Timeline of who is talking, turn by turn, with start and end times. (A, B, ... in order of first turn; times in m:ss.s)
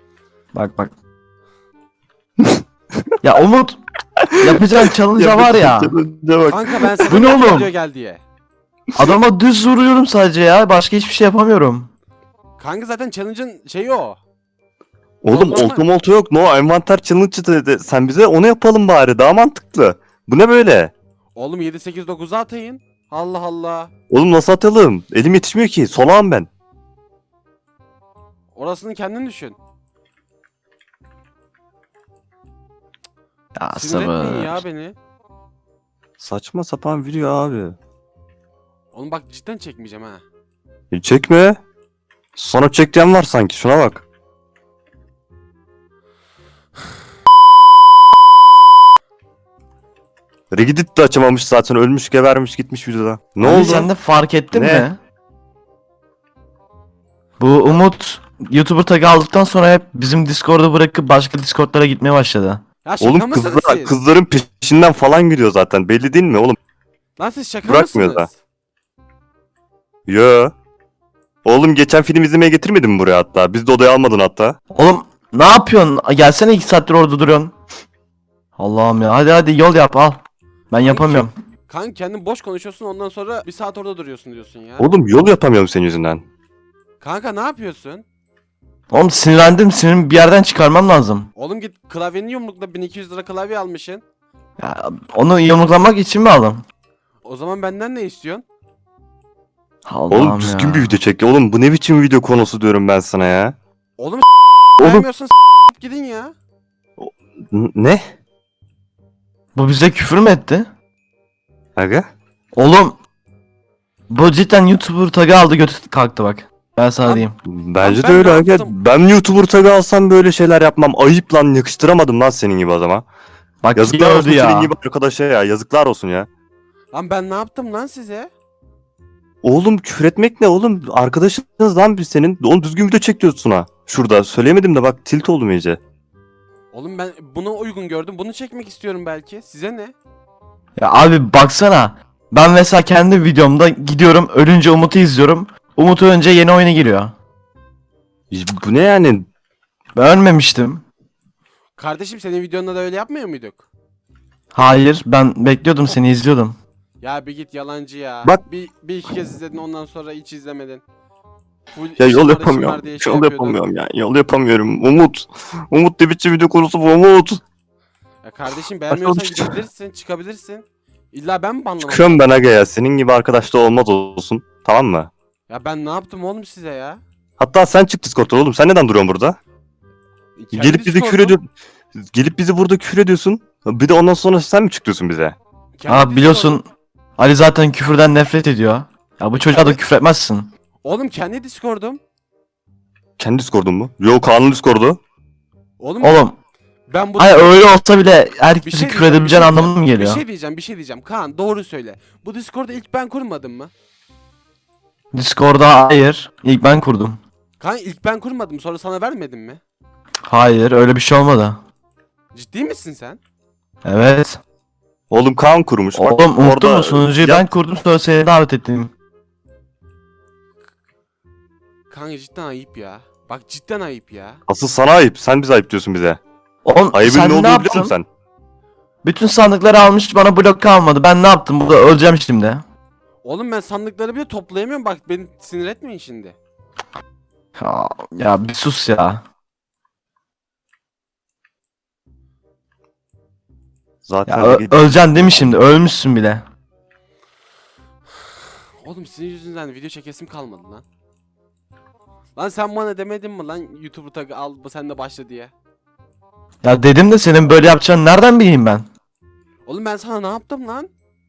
0:00.5-0:00.9 A
0:03.2-0:03.8 A
0:04.2-0:04.6 B
0:04.4-0:05.9 A
0:05.2-0:07.2 B
0:06.5-0:08.2 C
0:07.1-0:07.7 A
0:09.0-0:11.9 A
0:12.6-0:14.2 C
0:15.2-0:20.9 B
0:15.3-0:15.8 C
0:21.3-0:23.9 C
0:24.1-0:26.5 B
0:28.6-0:29.6 C
0:33.6-0:34.6 A
0:33.7-0:35.0 C
0:36.2-0:37.8 B
0:38.9-0:40.2 C
0:40.9-0:41.6 B
0:42.4-0:44.1 B
0:50.5-0:53.9 B
0:53.4-0:55.0 A
0:54.5-0:54.9 B
0:57.4-1:02.6 A
1:02.8-1:03.9 C
1:03.0-1:06.6 B
1:07.2-1:08.4 C
1:07.6-1:08.3 B
1:10.1-1:10.5 B
1:11.4-1:14.6 B
1:14.7-1:17.5 A
1:18.6-1:21.3 A
1:20.8-1:24.9 C
1:24.8-1:26.2 B
1:27.0-1:28.0 C
1:28.9-1:31.3 A
1:31.4-1:34.0 C
1:34.6-1:36.6 A
1:37.2-1:38.4 C
1:39.9-1:41.0 A
1:40.1-1:43.6 B
1:44.0-1:44.2 C
1:44.8-1:46.3 C
1:44.8-1:45.1 A
1:47.0-1:48.0 B
1:49.6-1:50.7 A
1:51.8-1:52.1 B
1:52.6-1:53.0 A
1:54.1-1:57.4 A
1:57.0-1:57.3 C
1:57.4-2:03.1 B
1:57.8-1:58.8 C
2:03.6-2:04.7 A
2:03.8-2:06.3 B
2:06.9-2:08.3 C
2:09.4-2:15.8 B
2:16.7-2:19.9 C
2:20.8-2:27.1 A
2:28.3-2:29.3 B
2:30.0-2:30.8 A
2:31.8-2:33.7 C
2:34.5-2:36.6 A
2:37.0-2:40.8 C
2:41.7-2:43.6 C
2:42.0-2:47.4 B
2:48.2-2:52.2 C
2:48.9-2:49.6 B
2:51.8-2:55.1 B
2:55.5-2:57.0 C
2:57.4-2:59.4 B
3:00.4-3:01.4 C
3:00.5-3:05.4 B
3:05.8-3:06.6 C
3:05.9-3:06.6 A
3:07.2-3:10.5 A
3:09.5-3:09.8 C
3:10.8-3:12.0 C
3:13.2-3:15.0 B
3:15.8-3:16.3 C
3:16.0-3:16.4 A
3:16.9-3:17.6 C
3:17.2-3:20.2 A
3:18.6-3:23.7 C
3:25.1-3:27.2 A
3:27.6-3:29.6 C
3:30.3-3:31.6 A
3:32.3-3:33.2 C
3:33.8-3:34.4 A
3:35.1-3:37.5 B
3:35.9-3:38.9 A
3:41.9-3:44.4 C
3:44.5-3:46.2 B
3:46.6-3:47.9 A
3:46.9-3:48.1 B
3:49.0-3:52.6 A
3:53.2-3:56.4 C
3:57.6-3:59.2 A
4:04.0-4:05.7 B
4:04.3-4:06.4 A
4:08.8-4:10.8 C
4:12.4-4:15.5 C
4:16.6-4:18.9 A
4:19.7-4:20.9 C